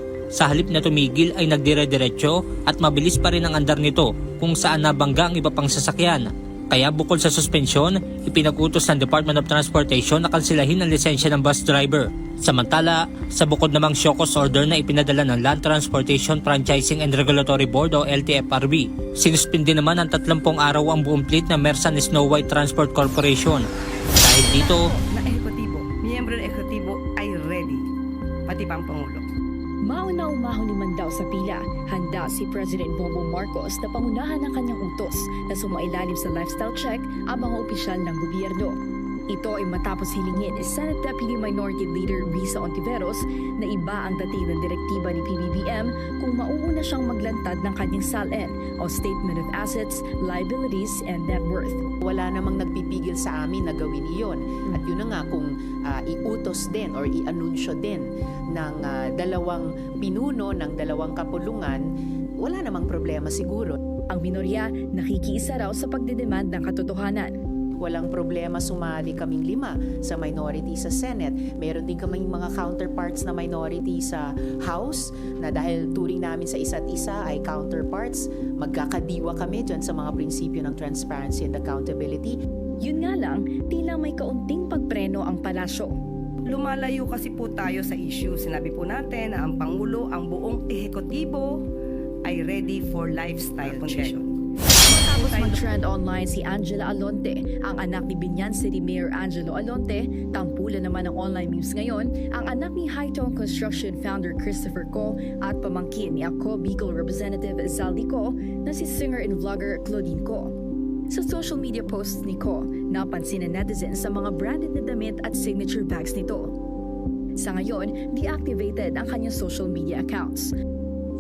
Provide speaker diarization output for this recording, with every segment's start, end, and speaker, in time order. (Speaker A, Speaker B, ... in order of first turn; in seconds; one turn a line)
Speaker A: 0.3-23.6
Speaker A: 24.2-24.9
Speaker B: 24.5-27.8
Speaker B: 28.5-29.2
Speaker C: 29.8-38.8
Speaker C: 39.3-51.8
Speaker D: 52.0-61.8
Speaker D: 62.4-63.8
Speaker C: 64.1-67.3
Speaker D: 67.8-82.4
Speaker C: 82.8-85.9
Speaker B: 86.5-91.5
Speaker B: 92.3-94.3
Speaker C: 93.7-94.1
Speaker C: 94.9-110.5
Speaker B: 94.9-95.4
Speaker C: 111.1-116.5
Speaker C: 117.4-120.5